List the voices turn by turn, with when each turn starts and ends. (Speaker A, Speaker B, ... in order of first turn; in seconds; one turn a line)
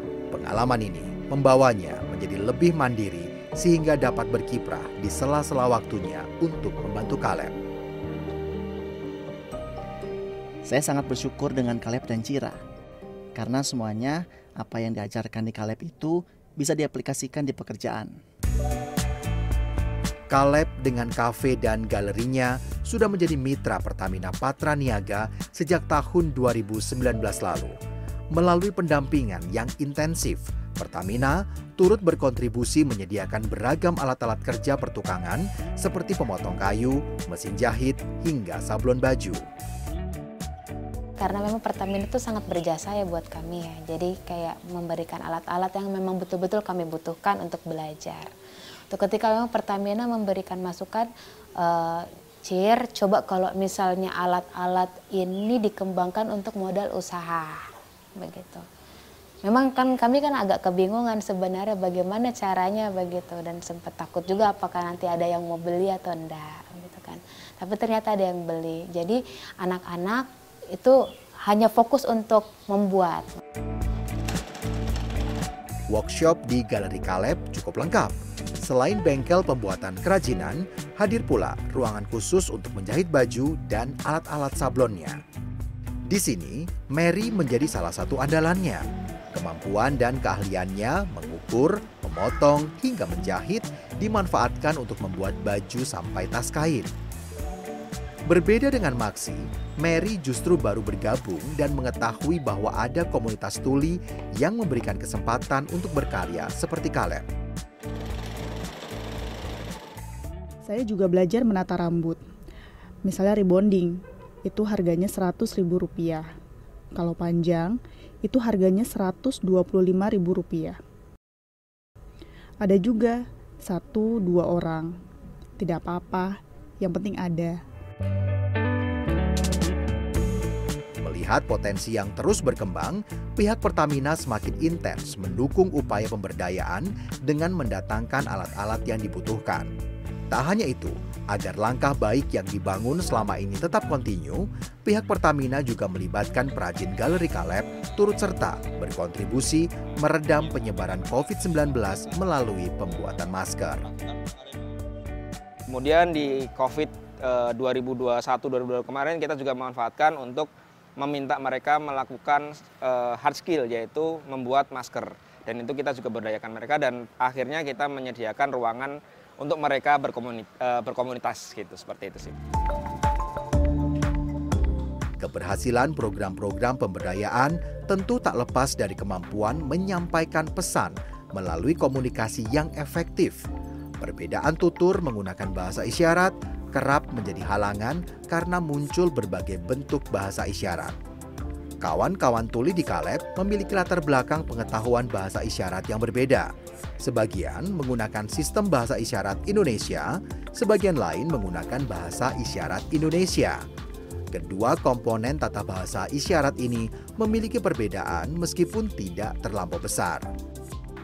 Speaker A: 0.3-7.6
Speaker B: 10.6-12.6
Speaker B: 13.3-18.2
Speaker A: 20.3-27.8
Speaker A: 28.3-39.5
Speaker C: 41.2-48.3
Speaker C: 48.9-57.6
Speaker C: 58.2-58.6
Speaker C: 59.4-73.4
Speaker A: 75.9-85.2
Speaker A: 86.1-96.9
Speaker A: 98.3-107.3
Speaker D: 110.7-112.2
Speaker D: 113.0-116.2
Speaker D: 116.9-120.8
Speaker D: 122.6-124.9
Speaker D: 125.6-127.6
Speaker A: 131.0-139.7
Speaker A: 140.3-153.8
Speaker E: 154.0-154.4
Speaker E: 155.7-172.3
Speaker A: 175.2-183.4
Speaker A: 184.0-191.0
Speaker A: 191.8-203.6
Speaker A: 204.3-210.3